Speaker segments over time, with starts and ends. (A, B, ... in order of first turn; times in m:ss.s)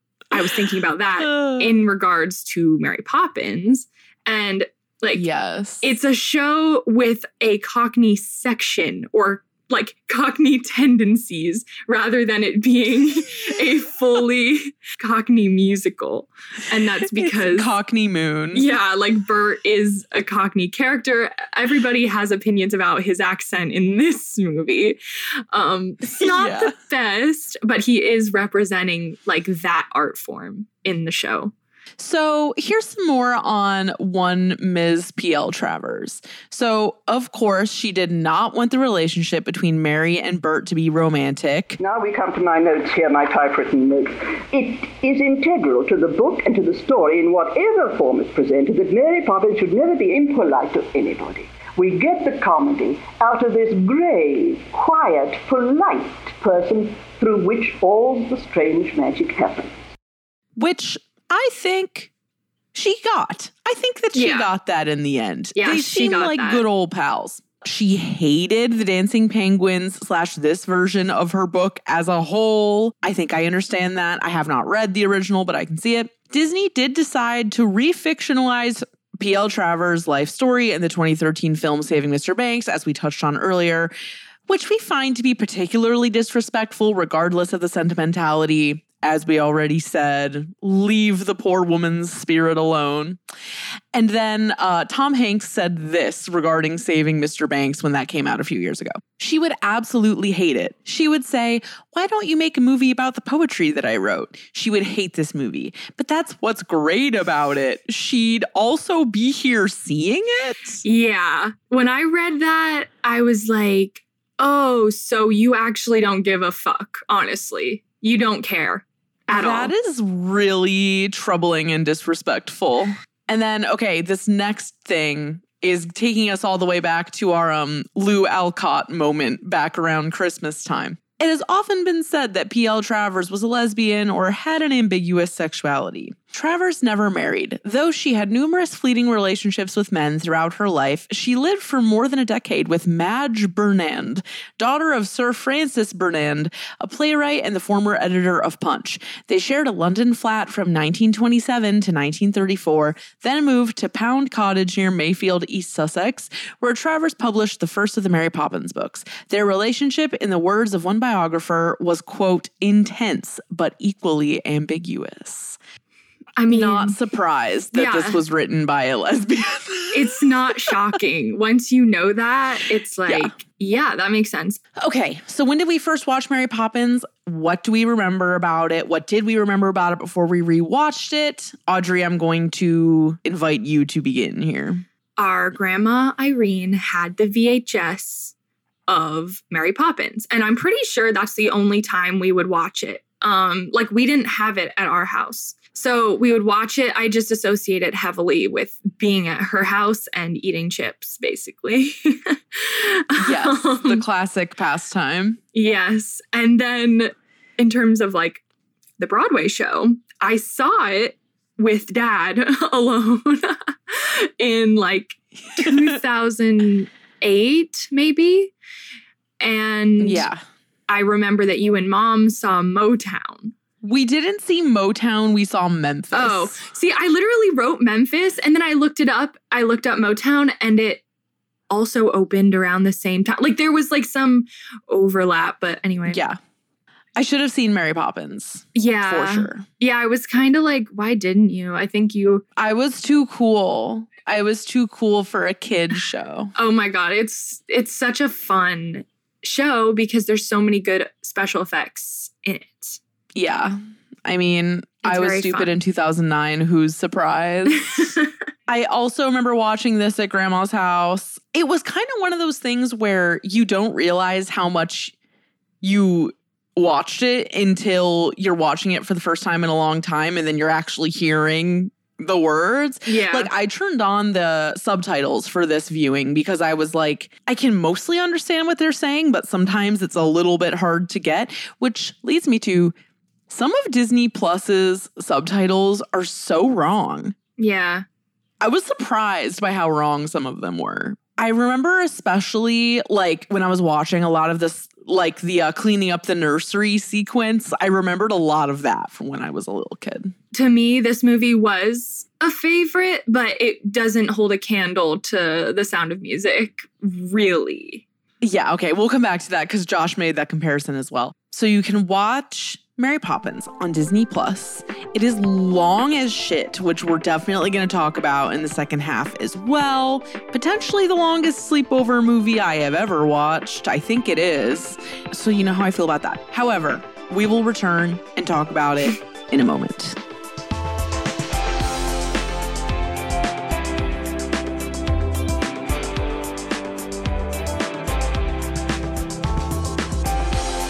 0:00.3-0:05.3 A
0:01.2-0:01.8 B
0:05.1-0:05.9 B
0:05.8-0:17.8 A
0:17.2-0:18.7 B
0:18.5-0:25.0 A
0:25.5-0:31.5 A
0:26.2-0:26.7 B
0:32.0-0:41.8 B
0:41.8-0:59.8 C
1:00.6-1:02.1 B
1:02.7-1:23.9 B
1:04.2-1:04.5 A
1:05.6-1:06.6 A
1:24.5-1:33.2 B
1:33.9-1:50.8 B
1:50.8-1:59.7 A
1:59.3-2:45.6 B
2:46.4-2:47.0 A
2:46.5-2:50.0 B
2:47.7-2:48.2 A
2:49.9-2:54.6 A
2:53.1-2:53.4 B
2:54.8-3:04.8 B
3:05.2-3:08.3 A
3:08.9-3:24.0 A
3:23.2-3:25.4 B
3:25.5-3:28.4 A
3:29.0-3:38.5 A
3:35.5-3:36.0 B
3:39.4-3:40.3 A
3:40.0-3:40.4 B
3:40.9-3:43.5 A
3:43.8-3:46.6 B
3:46.1-3:51.0 A
3:51.7-3:56.2 A
3:56.1-3:56.4 B
3:57.2-3:59.7 B
3:58.8-4:02.4 A
4:02.6-4:06.5 B
4:06.6-4:13.0 A
4:13.4-4:18.1 B
4:15.0-4:15.7 A
4:17.9-4:18.3 A
4:18.7-4:25.1 B
4:25.8-4:42.9 B
4:33.1-4:33.5 A
4:43.5-4:47.3 B
4:47.6-4:48.0 A
4:48.6-5:00.3 B
5:00.5-5:08.0 A
5:08.4-5:30.2 B